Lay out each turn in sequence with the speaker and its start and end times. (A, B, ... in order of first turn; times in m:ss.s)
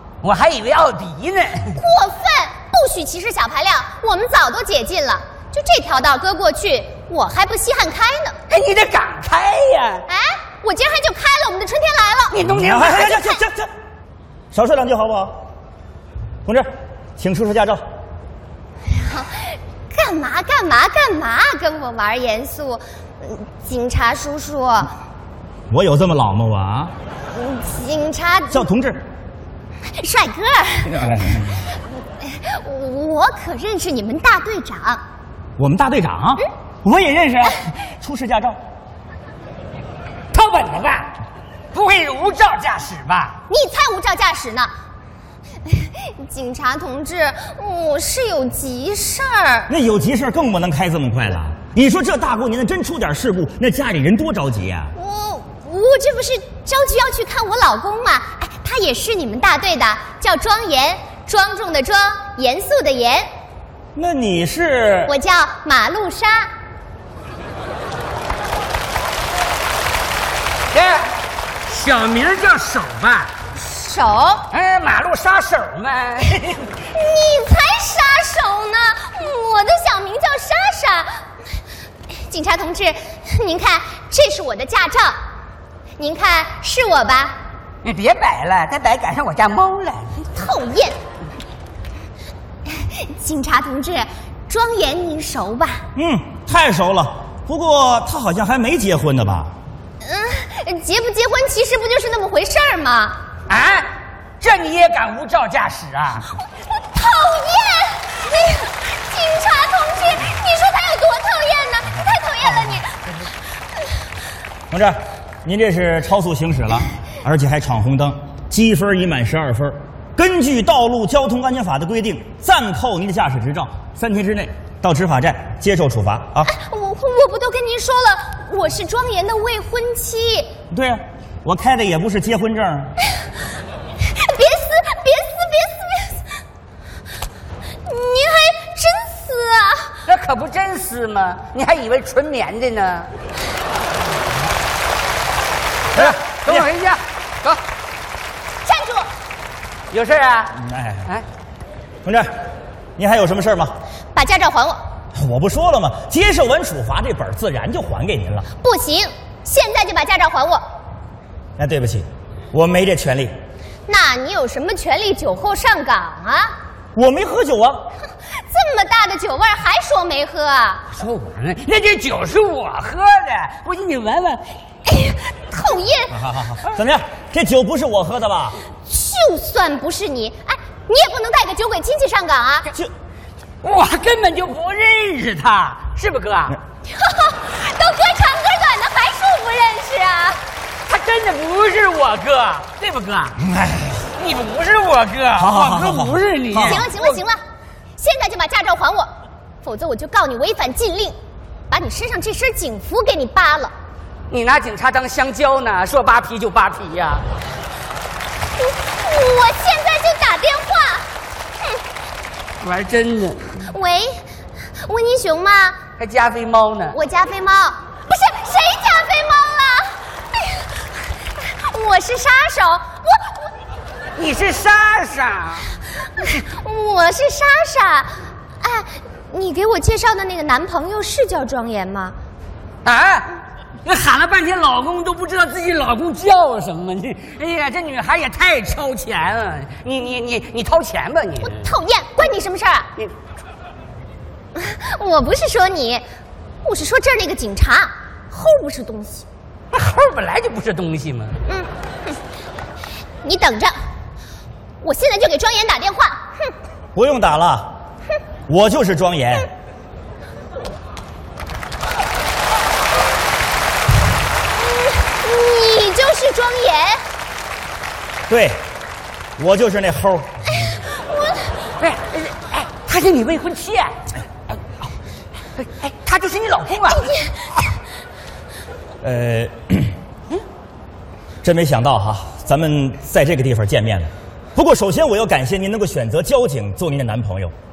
0:00.2-0:01.8 A
0:01.8-0:08.4 B
0:08.5-0:10.1 A
0:10.1-0:13.4 B
0:12.3-0:13.0 A
0:12.5-0:13.7 C
0:14.5-0:15.4 C
0:16.5-0:17.8 C
0:18.9-0:24.9 B
0:25.7-0:26.9 C
0:27.3-0:28.6 B
0:28.5-0:29.0 C
0:30.0-0:31.0 B
0:30.9-0:31.6 C
0:32.2-0:35.0 B
0:35.6-0:38.6 C
0:40.3-0:41.1 A
0:41.7-0:43.4 A
0:43.5-0:44.7 B
0:45.7-0:49.7 B
0:49.7-0:54.9 C
0:55.0-1:03.3 B
1:04.0-1:05.1 C
1:05.1-1:06.5 B
1:10.7-1:11.1 A
1:11.7-1:13.3 A
1:13.6-1:14.5 B
1:14.5-1:16.7 A
1:16.9-1:21.1 B
1:22.1-1:25.2 B
1:26.0-1:27.4 B
1:27.8-1:30.3 A
1:30.4-1:31.0 B
1:32.7-1:35.9 B
1:36.0-1:39.5 C
1:40.0-1:43.2 B
1:43.5-1:46.3 A
1:47.0-1:53.0 B
1:54.7-2:06.5 C
2:06.4-2:10.5 B
2:10.7-2:12.9 C
2:14.1-2:16.2 B
2:17.9-2:20.0 B
2:20.1-2:23.1 A
2:25.9-2:26.7 C
2:26.0-2:27.6 A
2:28.6-2:29.1 B
2:29.9-2:30.6 A
2:30.6-2:31.0 C
2:32.0-2:32.3 C
2:33.0-2:33.8 C
2:34.2-2:34.8 B
2:35.2-2:38.5 C
2:38.6-2:40.6 B
2:41.6-2:43.3 C
2:43.9-2:46.5 B
2:47.0-2:47.9 C
2:48.5-2:50.9 B
2:50.9-2:54.5 A
2:54.9-2:56.2 B
2:56.1-2:58.6 C
2:58.9-3:02.7 B
3:03.6-3:06.6 A
3:06.9-3:10.4 B
3:10.9-3:13.4 A
3:13.5-3:14.0 C
3:14.2-3:17.2 A
3:15.4-3:16.8 C
3:16.6-3:17.4 B
3:18.0-3:19.1 B
3:19.6-3:21.2 B
3:21.7-3:23.7 B
3:24.3-3:27.3 A
3:28.6-3:31.1 B
3:32.6-3:33.6 A
3:33.7-3:34.2 B
3:34.8-3:35.8 B
3:36.0-3:37.0 A
3:36.9-3:40.7 B
3:41.5-3:43.3 B
3:44.2-3:45.7 A
3:46.2-3:48.1 B
3:48.6-3:52.2 B
3:52.8-3:53.3 A
3:53.8-4:01.7 A
4:01.4-4:02.9 B
4:04.6-4:06.0 B
4:06.6-4:09.2 B
4:09.7-4:11.4 A
4:11.5-4:12.1 B
4:13.2-4:13.7 B
4:14.8-4:16.5 B
4:17.0-4:17.8 C
4:18.5-4:19.5 C
4:24.6-4:27.0 B
4:28.3-4:28.6 C
4:29.4-4:30.3 C
4:30.7-4:31.4 B
4:31.8-4:34.0 A
4:35.6-4:37.1 A
4:39.0-4:39.9 C
4:41.4-4:47.5 C